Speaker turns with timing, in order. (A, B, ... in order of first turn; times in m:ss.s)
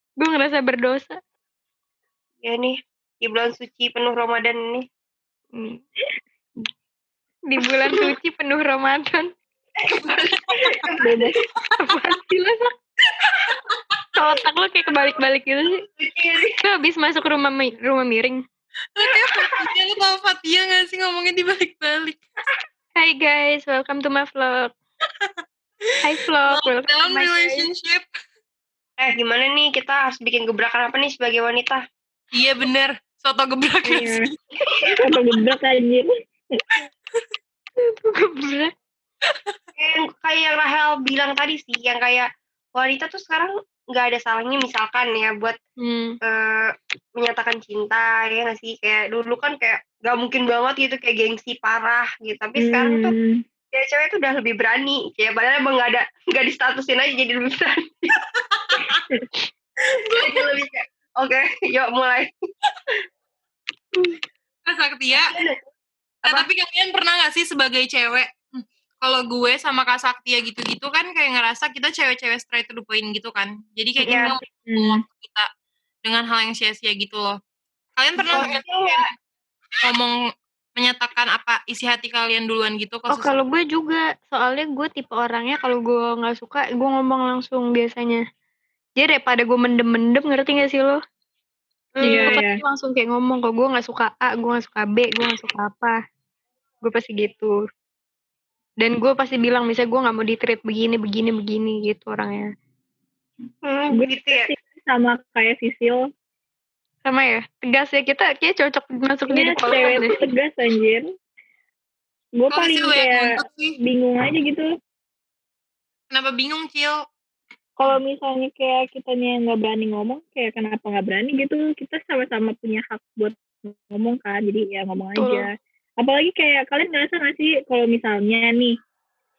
0:00.2-0:01.2 A
0:02.4-0:04.9 B
0:05.6-0:05.8 A
0:07.5-0:09.3 A
0:09.8-0:11.4 B
0:11.0-0:11.4 C
0:11.8-0:12.7 A
0:14.2-0:15.8 A
0:15.9-0:16.6 B
0:16.6-0:18.4 A
0:19.0-0:22.2 D
0:19.1-0:19.6 B
0:23.0-0:24.7 A
0:26.0-0:27.7 A
0:26.5-0:28.1 D
0:29.0-0:31.8 B
0:32.3-0:34.3 D
0:33.9-0:34.3 C
0:34.8-0:35.1 B
0:34.9-0:36.6 C
0:37.8-0:38.7 A
0:39.8-0:45.6 B
0:45.8-0:46.2 A
0:46.2-0:53.1 B
0:52.6-0:53.4 C
0:53.7-0:58.1 B
0:58.5-0:59.0 D
1:00.0-1:02.3 B
1:00.1-1:00.4 D
1:04.7-1:05.3 D
1:05.2-1:05.6 B
1:06.2-1:15.5 D
1:14.1-1:14.3 B
1:14.7-1:15.0 C
1:16.0-1:17.4 D
1:18.0-1:19.1 D
1:18.2-1:19.0 B
1:19.8-1:20.2 D
1:20.8-1:23.3 D
1:23.1-1:28.2 A
1:29.0-1:31.0 A
1:32.0-1:32.4 B
1:32.0-1:36.0 A
1:32.0-1:32.6 C
1:36.8-1:37.6 A
1:38.8-1:42.5 A
1:43.7-1:44.5 B
1:43.9-1:46.0 C
1:47.0-1:50.2 A
1:49.3-1:51.0 C
1:52.4-1:54.7 C
1:52.5-1:53.8 D
1:56.1-1:57.0 D
1:57.8-2:08.8 C
2:05.2-2:05.5 A